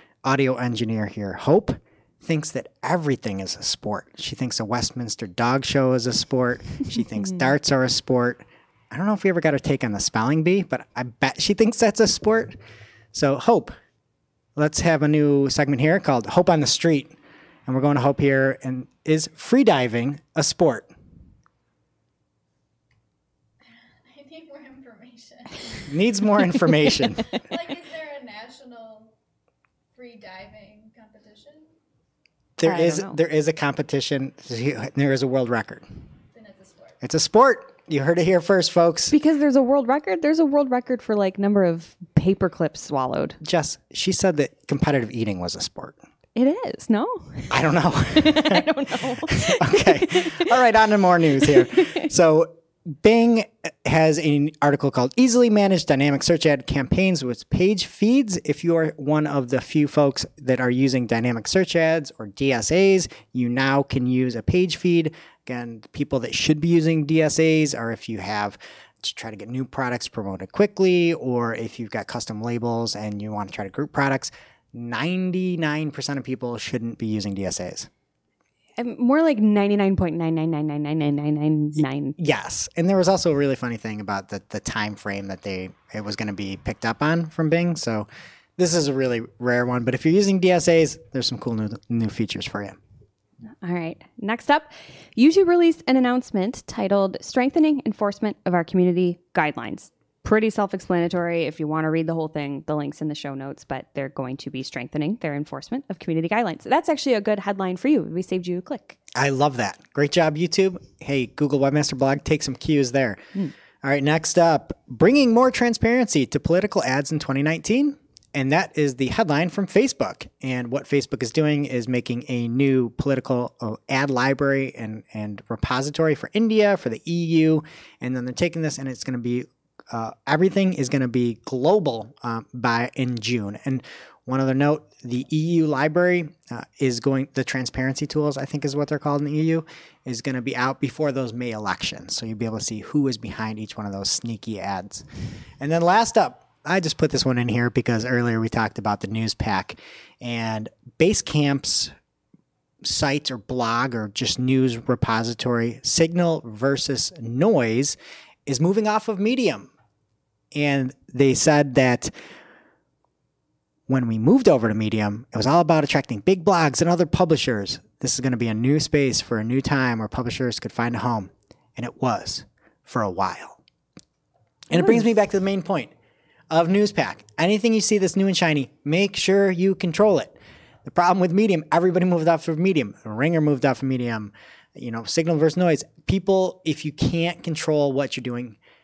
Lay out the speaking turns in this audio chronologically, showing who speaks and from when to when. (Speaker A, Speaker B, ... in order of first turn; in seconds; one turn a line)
Speaker A: 0.2-12.6
Speaker A: 13.1-13.8
Speaker A: 14.6-20.9
Speaker B: 23.6-25.9
Speaker A: 25.9-27.4
Speaker B: 27.3-29.1
Speaker B: 29.9-31.7
Speaker A: 32.6-35.8
Speaker C: 32.6-33.2
Speaker B: 36.3-37.0
Speaker A: 37.0-39.1
Speaker C: 39.1-43.4
Speaker A: 43.4-46.0
Speaker C: 46.4-47.5
Speaker A: 47.5-48.6
Speaker C: 48.1-50.5
Speaker A: 49.3-77.9
Speaker C: 51.4-52.1
Speaker C: 78.8-82.1
Speaker A: 81.8-92.8
Speaker C: 93.6-109.0
Speaker A: 109.1-113.2
Speaker A: 113.8-145.1
Speaker A: 145.6-151.9
Speaker A: 152.8-159.7
Speaker A: 160.5-162.1
Speaker A: 163.9-173.6
Speaker A: 174.7-175.9
Speaker C: 174.8-175.0
Speaker A: 176.5-188.6